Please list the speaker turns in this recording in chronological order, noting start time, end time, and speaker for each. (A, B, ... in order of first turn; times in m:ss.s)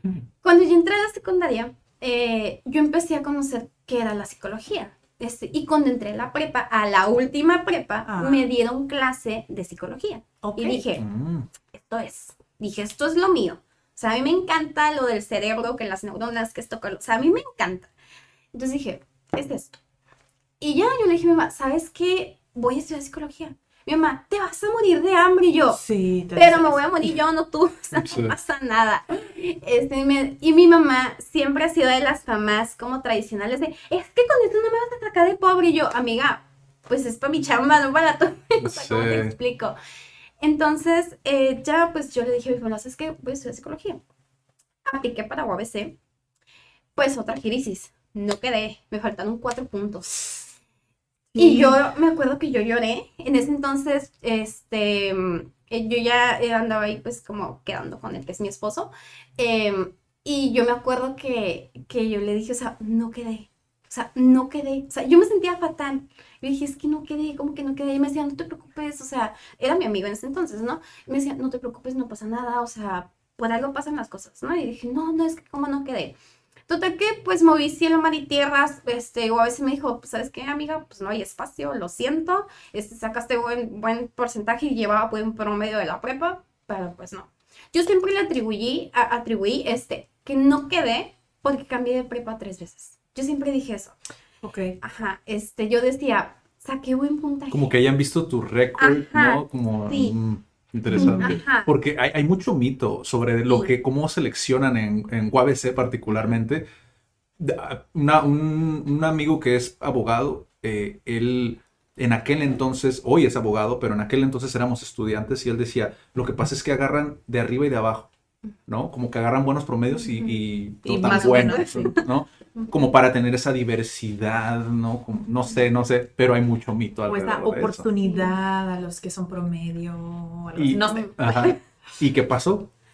0:00.4-0:11.0 A
0:08.0-0:08.5 B
0:10.4-0:10.8 B
0:11.0-0:11.5 C
0:11.7-0:17.9 A
0:18.5-0:19.8 A
0:20.6-0:25.8 A
0:25.7-0:27.1 B
0:26.4-0:39.8 A
0:28.0-0:28.3 C
0:38.6-0:39.3 C
0:40.4-0:44.0 A
0:44.9-0:46.0 A
0:47.0-0:50.5 A
0:51.3-0:51.8 B
0:51.4-1:16.2 A
1:16.7-1:34.0 A
1:34.4-1:34.8 B
1:34.8-1:37.8 A
1:37.5-1:46.7 C
1:38.8-1:40.2 A
1:40.9-1:41.4 B
1:41.0-1:41.7 A
1:43.5-1:43.7 A
1:47.4-1:58.1 C
1:58.7-2:07.9 C
2:00.0-2:00.3 A
2:00.8-2:02.0 B
2:01.0-2:01.9 A
2:07.1-2:11.5 B
2:08.0-2:08.4 A
2:10.6-2:12.7 C
2:10.9-2:11.6 A